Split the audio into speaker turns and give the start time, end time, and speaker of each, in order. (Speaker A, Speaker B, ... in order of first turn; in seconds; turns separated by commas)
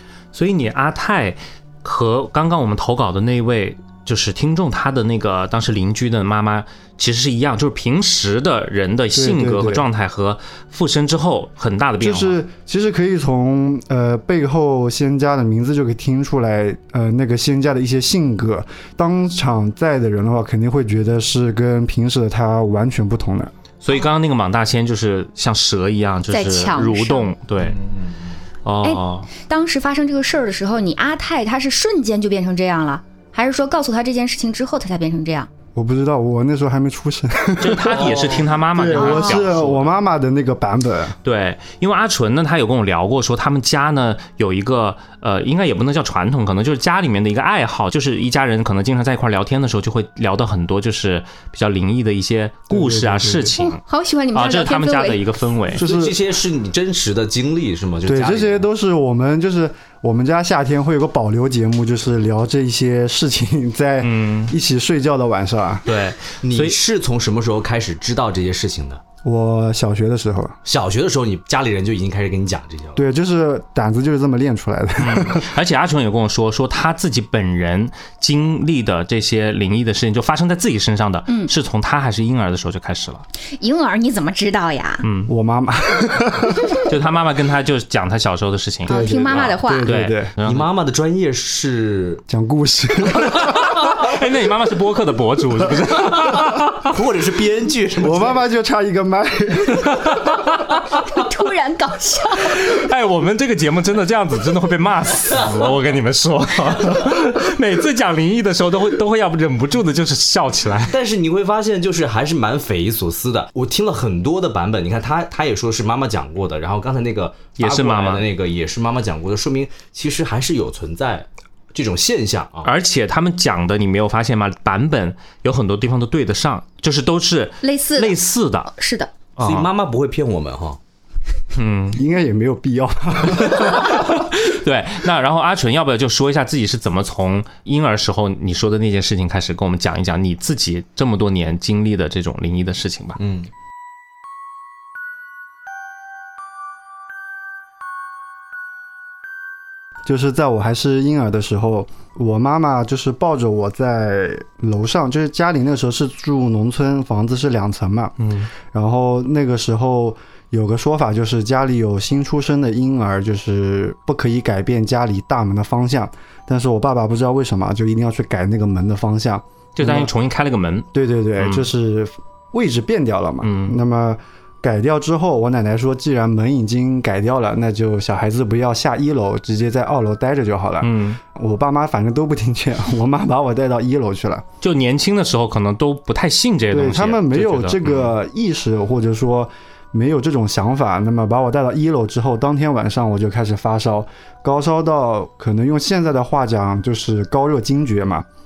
Speaker A: 0.3-12.4, Speaker B: 9.1-9.9, Speaker B: 12.0-23.5, Speaker A: 23.8-27.8, Speaker C: 26.3-27.3, Speaker D: 27.6-28.4, Speaker A: 28.6-29.3, Speaker C: 28.8-35.5, Speaker B: 35.8-41.2, Speaker A: 37.6-39.9, Speaker D: 37.9-38.5, Speaker C: 38.9-39.4, Speaker A: 41.2-53.8, Speaker B: 52.7-53.6, Speaker C: 53.6-55.2, Speaker A: 54.3-55.8, Speaker B: 55.7-56.2, Speaker D: 55.8-58.7, Speaker B: 58.0-65.9, Speaker A: 64.0-64.5, Speaker A: 65.9-66.8, Speaker D: 66.4-69.0, Speaker B: 69.2-70.6, Speaker D: 70.7-73.0, Speaker B: 73.0-75.5, Speaker A: 75.0-83.3, Speaker C: 83.6-85.0, Speaker A: 85.0-85.3, Speaker B: 85.3-86.8, Speaker A: 86.8-90.7, Speaker C: 88.9-89.9, Speaker B: 88.9-90.3, Speaker D: 90.4-92.2, Speaker B: 92.3-93.8, Speaker A: 93.3-96.9, Speaker D: 96.8-98.4, Speaker B: 98.0-100.1, Speaker A: 99.8-100.9, Speaker C: 101.1-102.6, Speaker A: 102.4-111.0, Speaker D: 110.9-122.7, Speaker A: 117.6-118.3, Speaker A: 122.6-128.7, Speaker C: 127.6-128.2, Speaker C: 128.7-129.1, Speaker A: 129.4-129.7, Speaker D: 129.4-130.8, Speaker A: 131.6-132.0, Speaker B: 131.9-134.1, Speaker A: 133.4-143.2, Speaker D: 143.2-143.5, Speaker B: 150.1-170.1, Speaker A: 158.2-158.5, Speaker A: 169.8-171.7, Speaker B: 170.9-184.4, Speaker A: 173.4-173.8, Speaker A: 180.8-181.2, Speaker A: 184.6-188.1, Speaker B: 186.7-198.3